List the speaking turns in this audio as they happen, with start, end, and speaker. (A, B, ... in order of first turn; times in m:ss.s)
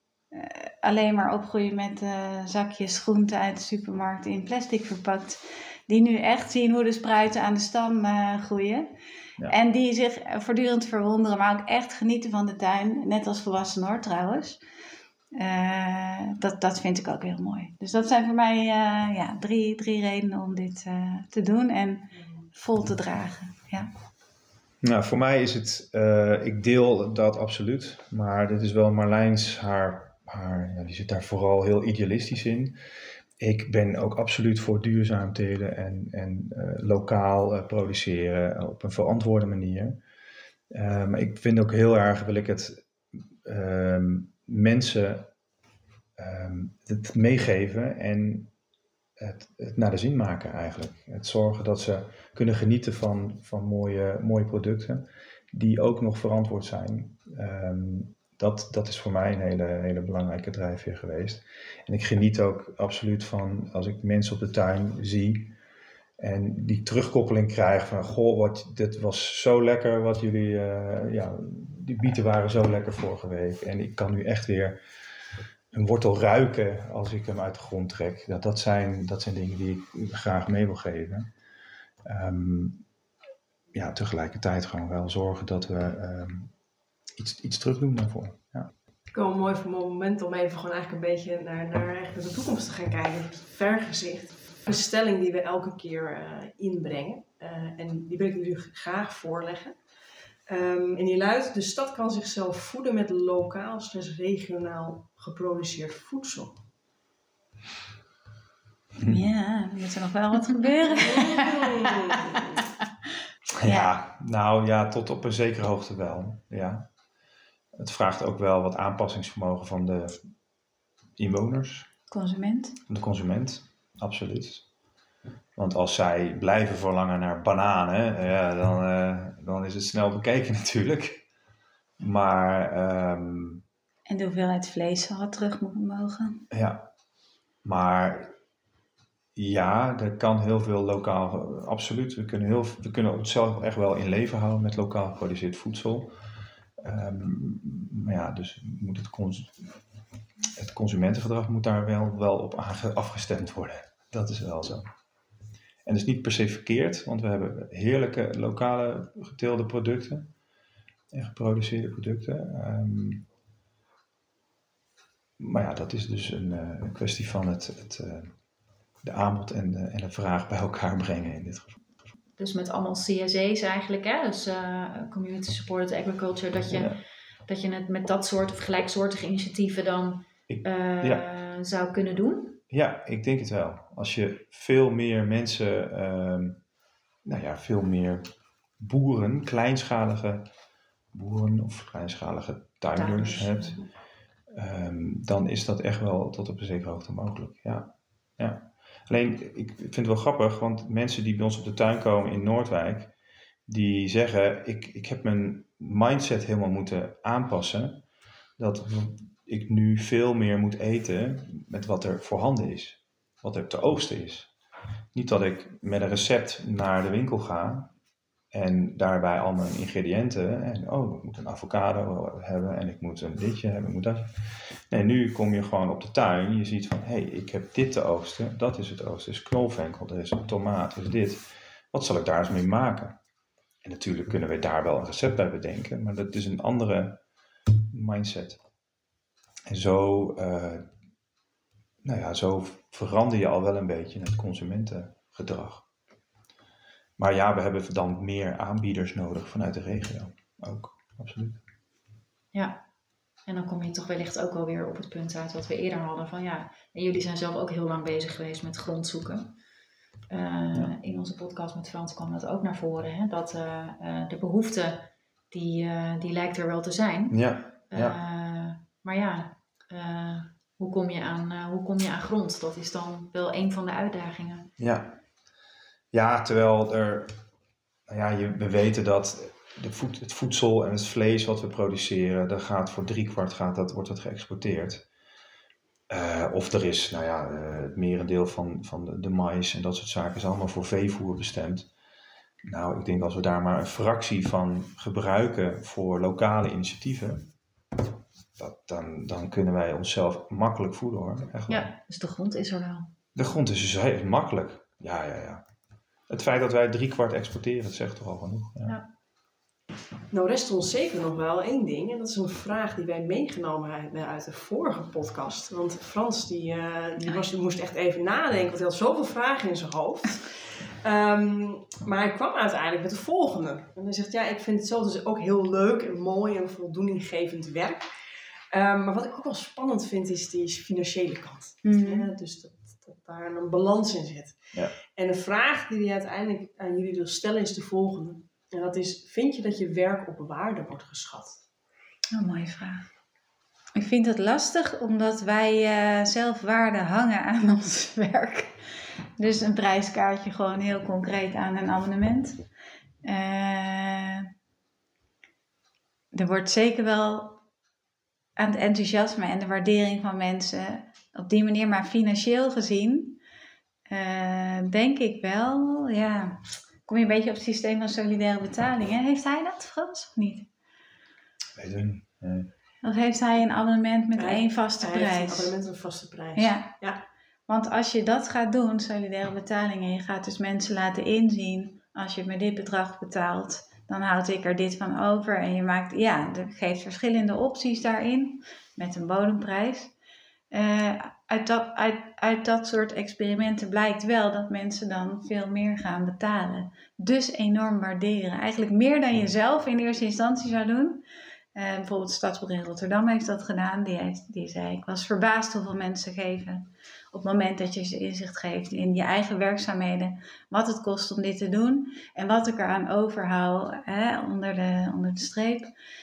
0:00.3-0:08.9 A
0:09.5-0:14.6 A
0:15.4-0:23.9 A
0:24.8-0:32.8 B
0:33.4-0:40.0 B
0:40.7-0:45.3 B
0:46.2-0:48.5 B
0:49.2-1:05.6 B
1:06.2-1:14.8 B
1:15.7-1:21.3 B
1:22.0-1:22.8 B
1:23.7-1:26.5 B
1:27.2-1:28.7 B
1:29.1-1:39.8 C
1:40.5-1:46.6 C
1:49.0-1:52.6 A
1:51.0-1:52.6 C
1:53.6-1:56.9 B
1:53.6-1:53.9 A
1:57.8-2:00.2 B
2:01.2-2:01.9 B
2:02.1-2:02.8 A
2:02.9-2:04.7 B
2:05.6-2:11.2 B
2:12.0-2:13.6 B
2:14.1-2:16.4 A
2:16.5-2:16.9 B
2:17.6-2:18.3 B
2:19.4-2:26.2 B
2:26.8-2:29.7 B
2:30.6-2:34.9 B
2:35.8-2:40.3 B
2:41.1-2:43.3 B
2:45.4-2:48.4 B
2:49.0-2:51.8 B
2:52.4-3:02.6 D
2:56.7-2:57.0 B
3:00.5-3:01.2 B
3:02.7-3:06.6 B
3:07.2-3:10.5 B
3:11.1-3:13.8 B
3:13.0-3:13.8 D
3:14.5-3:23.1 B
3:23.7-3:28.0 B
3:28.6-3:34.5 B
3:35.1-3:37.9 B
3:38.5-3:53.2 B
3:53.8-3:57.2 B
3:57.9-3:58.6 B
3:59.7-4:00.9 B
4:02.0-4:05.9 B
4:07.2-4:11.6 B
4:12.5-4:12.8 D
4:13.5-4:19.5 D
4:20.3-4:34.7 D
4:27.3-4:28.2 B
4:34.8-4:35.2 B
4:36.1-4:37.4 B
4:38.1-4:45.0 B
4:46.1-4:51.9 B
4:52.6-4:57.5 B
4:58.6-5:01.9 B
5:01.7-5:03.1 D
5:03.4-5:05.6 B
5:06.3-5:09.0 B
5:10.3-5:28.0 C
5:28.7-5:41.6 C
5:31.8-5:32.3 A
5:42.3-5:43.1 A
5:44.0-5:48.8 A
5:49.4-5:52.6 A
5:53.2-5:54.5 A
5:56.3-5:57.6 A
5:58.6-6:03.4 A
6:04.1-6:10.7 A
6:11.8-6:12.7 B
6:13.0-6:15.8 A
6:14.4-6:17.2 C
6:16.6-6:17.0 A
6:17.7-6:30.1 A
6:30.7-6:41.2 A
6:41.8-6:55.9 A